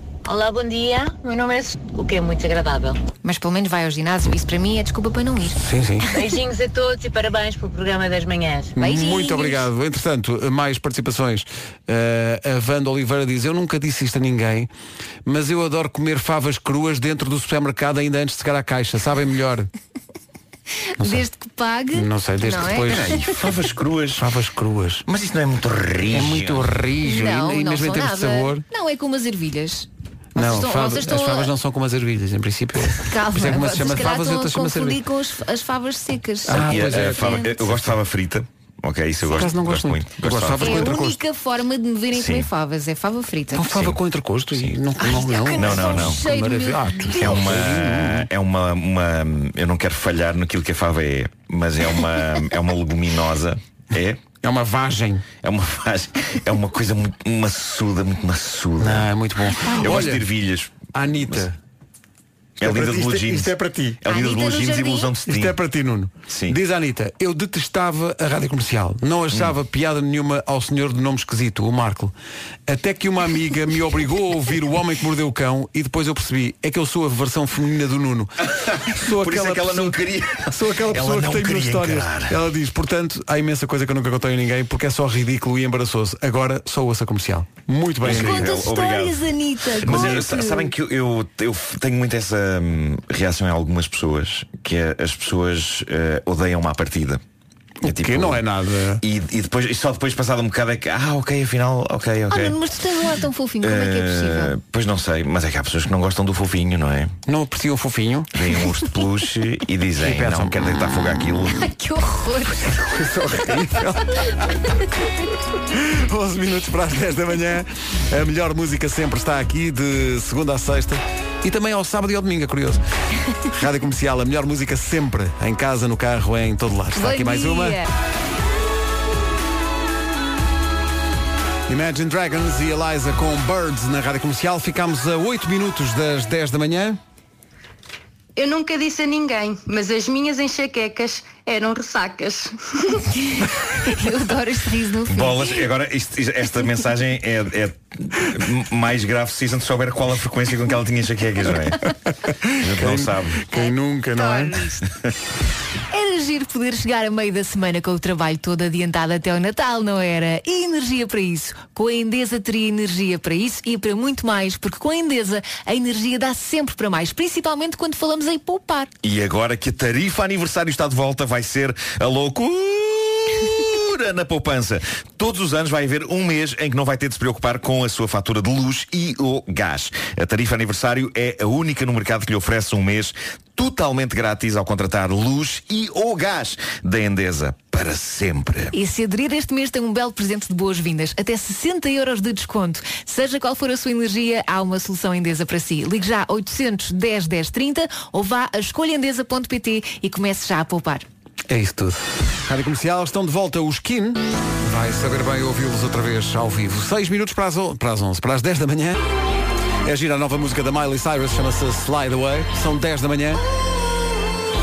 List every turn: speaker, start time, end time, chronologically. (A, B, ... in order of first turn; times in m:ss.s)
0:00.2-0:03.0 A
0:03.2-0:05.6 B
0:05.6-0:06.1 C
0:06.1-0:08.7 A
0:08.8-0:14.7 C
0:08.8-0:09.7 B
0:15.3-0:19.7 C
0:21.0-0:23.3 B
0:21.0-0:21.3 C
0:21.9-0:23.3 C
0:22.8-0:24.3 D
0:24.2-0:25.0 C
0:25.1-0:26.7 D
0:26.1-0:28.6 C
0:27.0-0:31.5 B
0:30.4-0:35.0 C
0:33.1-0:37.6 B
0:36.4-0:37.9 C
0:36.5-0:41.1 D
0:39.2-0:41.2 C
0:40.6-0:43.8 B
0:42.1-0:42.5 D
0:43.5-0:48.3 C
0:43.6-0:44.0 D
0:45.0-0:47.6 B
0:45.6-0:46.2 D
0:47.2-0:54.2 D
0:54.4-0:55.3 C
0:55.4-0:59.1 D
0:58.8-1:00.3 C
0:59.6-1:00.0 B
0:59.7-1:01.5 D
1:00.9-1:01.6 C
1:02.6-1:05.6 D
1:02.6-1:04.0 C
1:04.0-1:05.1 B
1:05.3-1:12.1 C
1:06.3-1:06.6 D
1:09.3-1:09.6 D
1:12.7-1:18.3 C
1:18.7-1:22.4 D
1:18.9-1:28.6 C
1:28.0-1:37.2 D
1:28.0-1:30.7 B
1:29.8-1:30.2 C
1:37.8-1:39.0 C
1:37.8-1:38.4 D
1:39.0-1:42.6 D
1:42.3-1:44.6 B
1:43.6-1:47.1 D
1:47.3-1:48.3 C
1:48.3-1:51.6 D
1:50.0-1:51.6 C
1:51.5-1:52.8 B
1:52.6-1:54.4 C
1:55.7-2:02.8 C
2:03.5-2:07.8 C
2:07.0-2:07.9 B
2:11.7-2:17.0 C
2:18.4-2:22.2 E
2:23.3-2:25.7 B
2:25.1-2:31.8 D
2:31.6-2:34.7 C
2:32.6-2:33.5 D
2:33.5-2:34.8 B
2:35.9-2:48.9 B
2:49.0-3:08.7 D
3:08.7-3:21.0 B
3:21.5-3:29.0 C
3:29.8-3:33.4 C